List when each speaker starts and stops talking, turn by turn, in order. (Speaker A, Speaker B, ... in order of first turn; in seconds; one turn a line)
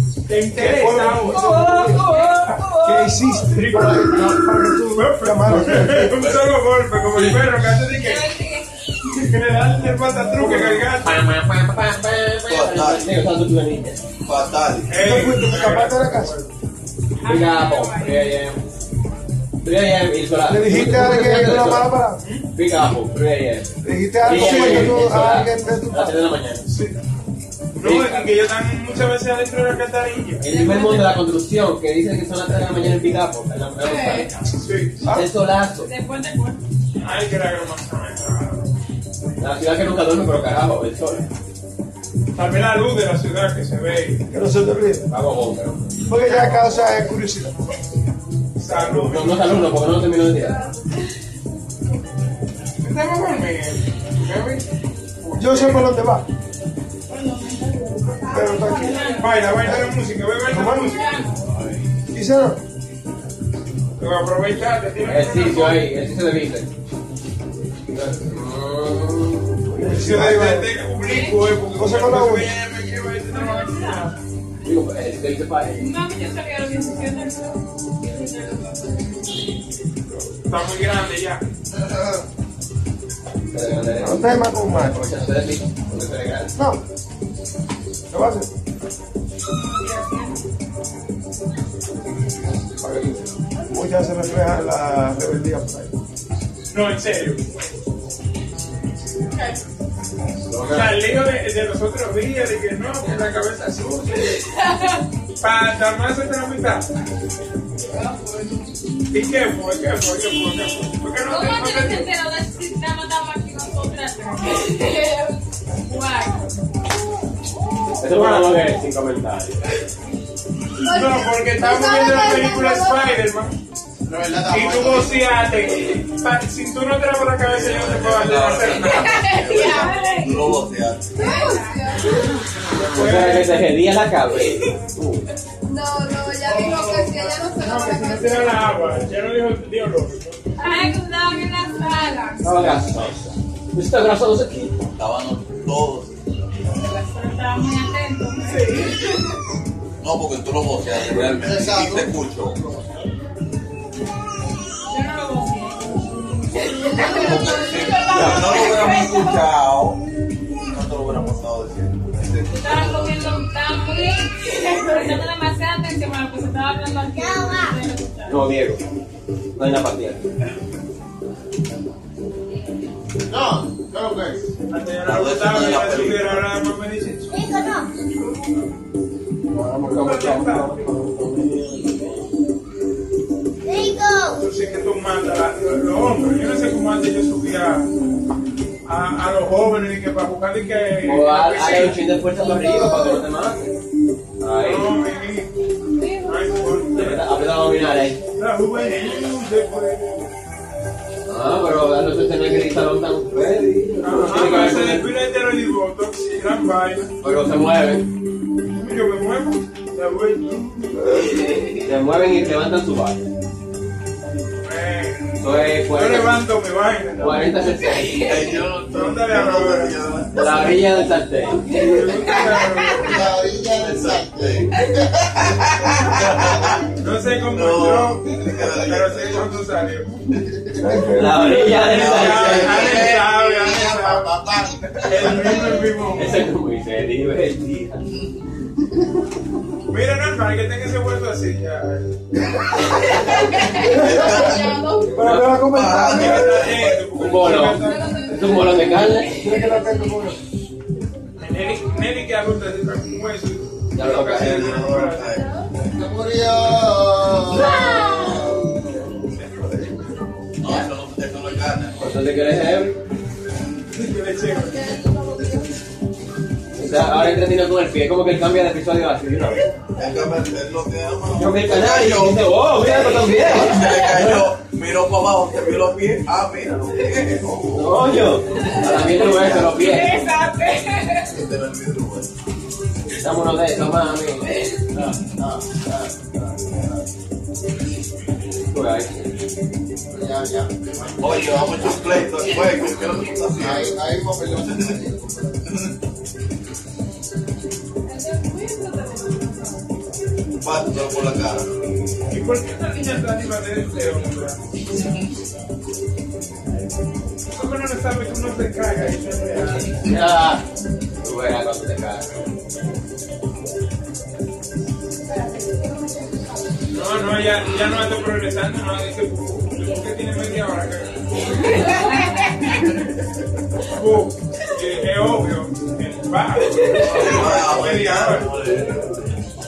Speaker A: 0.3-1.6
Speaker B: 0.5-2.1
Speaker C: 1.3-3.2
Speaker D: 1.9-2.5
Speaker B: 2.7-6.3
Speaker A: 3.5-4.3
Speaker A: 5.0-8.3
Speaker D: 8.0-8.7
Speaker A: 9.1-11.2
Speaker C: 10.4-14.0
Speaker E: 12.4-13.2
Speaker E: 14.3-15.0
Speaker A: 14.9-16.5
Speaker B: 15.0-16.3
Speaker D: 17.2-18.3
Speaker C: 17.2-18.6
Speaker C: 19.6-22.0
Speaker B: 20.5-22.2
Speaker A: 22.2-22.5
Speaker C: 22.5-26.6
Speaker B: 23.8-26.2
Speaker A: 24.3-24.9
Speaker A: 26.7-27.0
Speaker A: 27.7-31.1
Speaker C: 27.8-28.3
Speaker C: 30.4-34.5
Speaker D: 30.5-31.1
Speaker D: 33.8-34.1
Speaker A: 34.6-35.0
Speaker B: 35.0-35.3
Speaker C: 35.0-35.9
Speaker D: 35.8-36.6
Speaker A: 37.0-38.7
Speaker C: 39.4-41.3
Speaker A: 42.4-44.2
Speaker B: 44.3-45.0
Speaker C: 45.1-46.0
Speaker B: 46.1-47.6
Speaker A: 48.6-49.6
Speaker C: 48.7-50.6
Speaker A: 52.8-54.7
Speaker A: 55.2-56.0
Speaker B: 55.4-56.3
Speaker D: 57.1-59.5
Speaker B: 58.3-61.0
Speaker A: 59.1-61.4
Speaker D: 61.0-61.4
Speaker B: 62.1-62.6
Speaker A: 64.0-65.9
Speaker C: 65.0-66.7
Speaker C: 67.9-69.6
Speaker B: 69.7-70.7
Speaker A: 69.8-74.2
Speaker D: 71.0-71.5
Speaker B: 71.8-72.5
Speaker D: 73.3-74.1
Speaker C: 74.6-75.9
Speaker D: 75.8-79.2
Speaker A: 80.5-81.4
Speaker C: 83.5-86.5
Speaker B: 83.9-85.3
Speaker B: 86.6-86.8
Speaker B: 88.1-88.5
Speaker D: 89.5-90.4
Speaker B: 92.8-96.0
Speaker A: 96.7-97.5
Speaker C: 100.5-101.0
Speaker A: 100.7-104.4
Speaker A: 105.4-106.9
Speaker A: 109.1-112.1
Speaker D: 111.3-116.5
Speaker C: 118.0-119.6
Speaker A: 118.1-118.6
Speaker A: 120.8-123.6
Speaker D: 120.8-123.2
Speaker F: 124.1-125.2
Speaker A: 124.5-129.9
Speaker E: 127.5-131.4
Speaker D: 129.1-130.5
Speaker D: 131.2-132.3
Speaker G: 131.2-132.2
Speaker A: 132.7-133.6
Speaker C: 132.9-135.2
Speaker G: 135.7-138.5
Speaker A: 136.4-140.9
Speaker D: 140.6-142.7
Speaker C: 142.4-144.8
Speaker E: 144.9-146.3
Speaker D: 146.7-149.0
Speaker E: 150.0-152.6
Speaker C: 151.1-151.7
Speaker F: 151.4-152.8
Speaker D: 154.9-159.4
Speaker E: 157.1-160.0
Speaker G: 157.4-159.1
Speaker C: 158.2-158.5
Speaker E: 160.7-163.3
Speaker D: 162.5-168.5
Speaker H: 167.1-167.8
Speaker C: 168.3-168.8
Speaker C: 169.6-170.3
Speaker F: 173.3-174.4
Speaker A: 174.7-177.4
Speaker E: 175.1-176.4
Speaker H: 177.3-177.9
Speaker C: 179.5-181.9
Speaker A: 179.8-180.8
Speaker H: 183.7-184.4
Speaker A: 184.3-187.9
Speaker A: 188.9-192.0
Speaker C: 191.0-193.8
Speaker H: 192.6-193.1
Speaker C: 194.4-194.9
Speaker A: 194.6-195.5
Speaker D: 196.0-196.9
Speaker A: 196.2-197.4
Speaker C: 196.9-198.2
Speaker A: 198.4-200.2
Speaker C: 201.3-205.1
Speaker A: 204.0-207.1
Speaker C: 207.2-208.1
Speaker A: 208.8-211.1
Speaker B: 210.9-211.4
Speaker C: 211.7-213.2
Speaker A: 214.6-217.6
Speaker C: 215.4-216.4
Speaker C: 217.2-218.3
Speaker E: 217.9-220.8
Speaker A: 218.9-220.0
Speaker C: 220.3-221.6
Speaker A: 221.6-223.2
Speaker F: 223.0-225.4
Speaker E: 223.7-224.8
Speaker E: 225.4-227.0
Speaker A: 226.9-230.2
Speaker E: 227.5-229.7
Speaker E: 230.3-230.7
Speaker B: 230.8-231.8
Speaker C: 231.2-233.1
Speaker A: 231.4-234.3
Speaker E: 231.9-233.2
Speaker F: 232.7-235.6
Speaker A: 235.0-236.5
Speaker C: 236.1-238.0
Speaker A: 239.9-242.1
Speaker B: 242.7-243.2
Speaker D: 243.2-245.1
Speaker B: 243.8-246.7
Speaker E: 243.9-247.5
Speaker A: 246.0-249.0
Speaker C: 247.2-249.4
Speaker D: 247.8-249.5
Speaker B: 249.4-250.4
Speaker A: 251.4-255.5
Speaker C: 253.9-254.9
Speaker E: 254.3-255.6
Speaker F: 255.8-258.8
Speaker A: 257.6-257.9
Speaker D: 257.8-258.1
Speaker A: 259.2-260.1
Speaker E: 260.6-262.1
Speaker C: 262.0-263.0
Speaker A: 263.9-264.9
Speaker C: 266.7-269.6
Speaker E: 269.9-278.1
Speaker C: 271.4-274.5
Speaker C: 277.7-280.2
Speaker E: 278.8-279.9
Speaker D: 279.8-281.1
Speaker E: 281.3-282.3
Speaker C: 283.1-284.6
Speaker F: 285.0-286.7
Speaker C: 288.7-289.3
Speaker F: 290.1-292.2
Speaker E: 291.2-293.9
Speaker F: 293.5-295.6
Speaker E: 294.6-295.0
Speaker E: 295.6-295.9
Speaker G: 298.2-299.8
Speaker E: 300.6-301.7
Speaker A: 302.3-304.6
Speaker E: 305.0-305.2
Speaker A: 307.5-310.1
Speaker C: 310.1-310.6
Speaker C: 311.2-312.4
Speaker A: 316.9-321.2
Speaker D: 321.8-322.5
Speaker A: 323.9-328.5
Speaker E: 327.1-329.2